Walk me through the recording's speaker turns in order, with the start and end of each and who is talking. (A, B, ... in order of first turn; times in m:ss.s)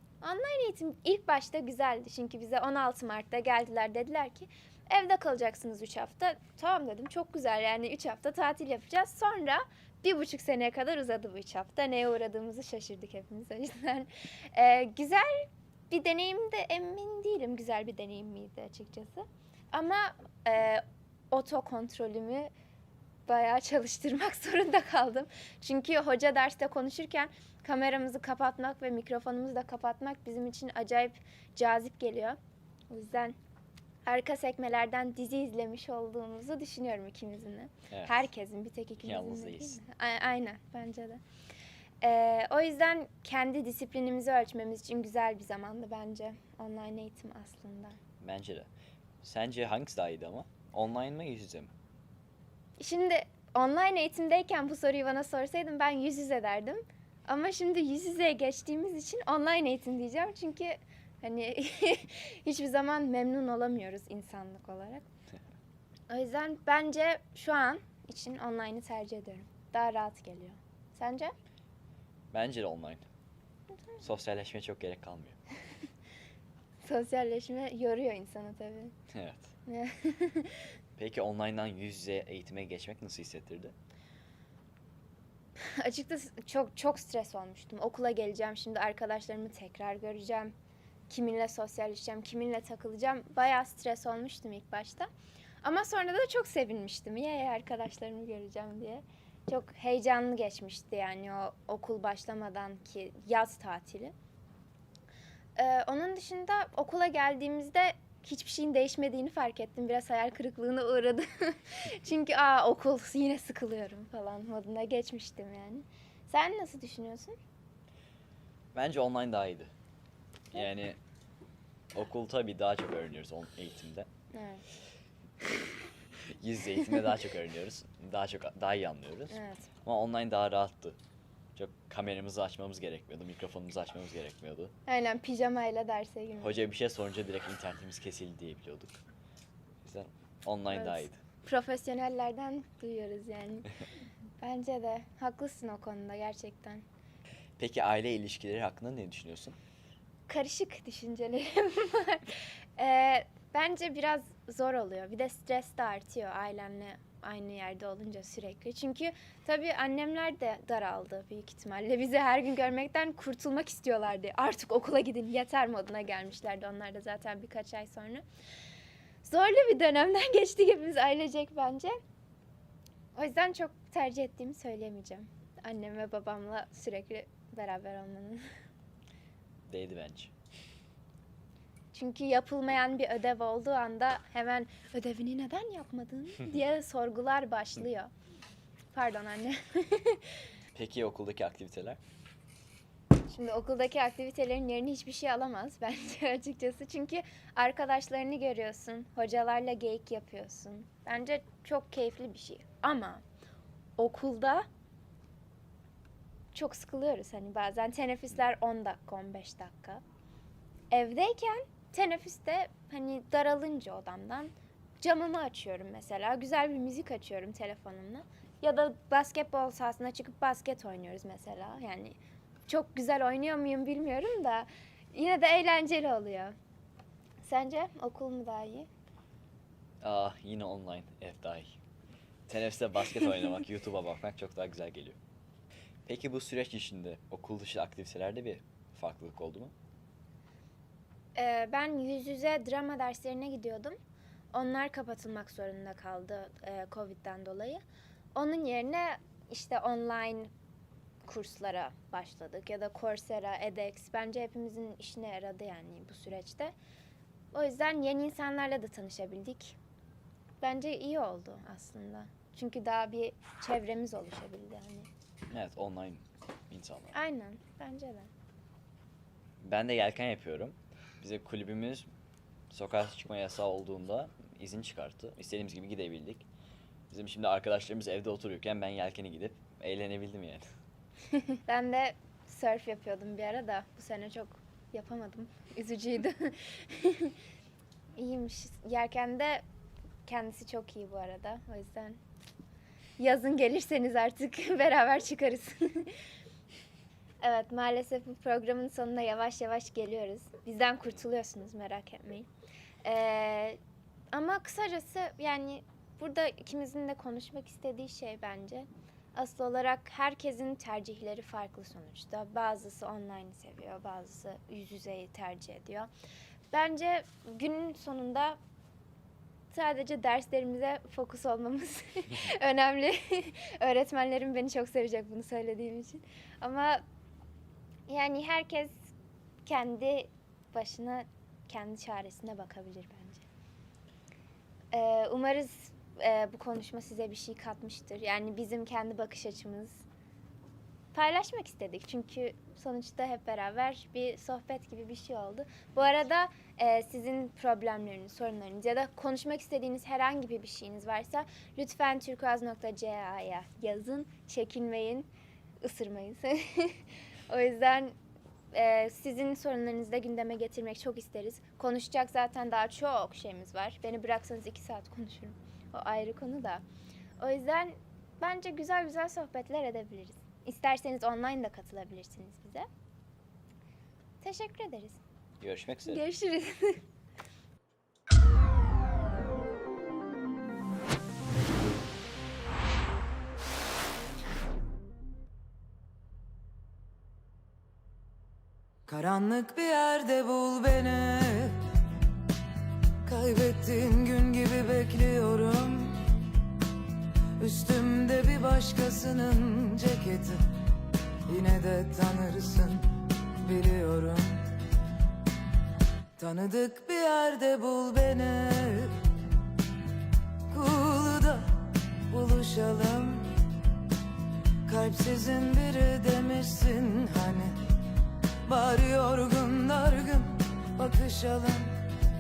0:00.2-0:22.5 A
0:23.3-0:32.4 A
0:32.9-0:33.4 A
0:34.1-0:41.2 A
0:37.9-0:38.3 B
0:39.0-0:39.8 B
0:42.0-0:48.0 A
0:48.2-0:48.7 B
0:49.2-0:51.7 B
0:52.8-1:05.1 A
1:06.1-1:11.3 A
1:12.3-1:13.1 B
1:14.0-1:15.4 B
1:16.8-1:18.9 A
1:19.1-1:19.5 B
1:19.7-1:20.6 A
1:21.0-1:23.7 B
1:25.6-1:30.5 A
1:31.1-1:35.1 A
1:35.6-1:44.1 A
1:45.6-1:57.4 A
1:58.7-1:59.7 B
2:00.5-2:01.0 B
2:02.0-2:04.1 B
2:04.3-2:04.6 A
2:06.4-2:11.0 B
2:09.3-2:09.7 A
2:11.6-2:14.7 B
2:14.9-2:16.6 A
2:16.4-2:19.0 B
2:19.8-2:21.2 B
2:20.7-2:23.7 A
2:24.4-2:26.8 A
2:27.6-2:29.6 B
2:30.3-2:48.2 A
2:49.2-2:52.0 A
2:53.2-2:58.4 A
2:59.7-3:00.3 B
3:01.9-3:08.1 A
3:08.9-3:10.2 A
3:10.8-3:12.0 B
3:13.3-3:23.2 A
3:24.0-3:24.7 A
3:26.5-3:30.0 A
3:30.9-3:46.6 A
3:47.4-3:48.9 A
3:50.0-3:51.8 B
3:52.5-3:55.2 B
3:56.1-3:59.7 B
4:01.4-4:04.0 A
4:04.5-4:07.8 A
4:08.4-4:10.5 A
4:11.2-4:16.8 A
4:17.5-4:19.8 A
4:20.6-4:25.1 A
4:25.5-4:27.2 B
4:27.1-4:28.3 A
4:29.6-4:32.1 B
4:32.7-4:36.5 B
4:37.1-4:40.6 B
4:41.7-4:47.3 A
4:48.2-4:49.6 A
4:50.3-4:52.2 A
4:53.2-4:56.1 A
4:57.4-5:02.5 A
5:03.0-5:03.8 A
5:04.3-5:16.1 A
5:16.7-5:18.6 A
5:19.7-5:27.0 A
5:28.1-5:29.0 A
5:29.7-5:33.5 A
5:34.9-5:40.0 A
5:41.1-5:55.3 A
5:55.8-5:58.2 A
5:58.7-6:06.8 A
6:07.4-6:12.9 A
6:14.4-6:15.2 A
6:15.6-6:16.2 B
6:16.0-6:17.0 A
6:29.1-6:31.8 C
6:33.2-6:36.2 C
6:37.6-6:40.6 C
6:41.5-6:43.1 C
6:43.6-6:44.6 C
6:46.4-6:49.1 C
6:50.7-6:51.6 C
6:52.3-6:53.5 C
6:54.9-6:57.8 C
6:58.7-7:01.9 C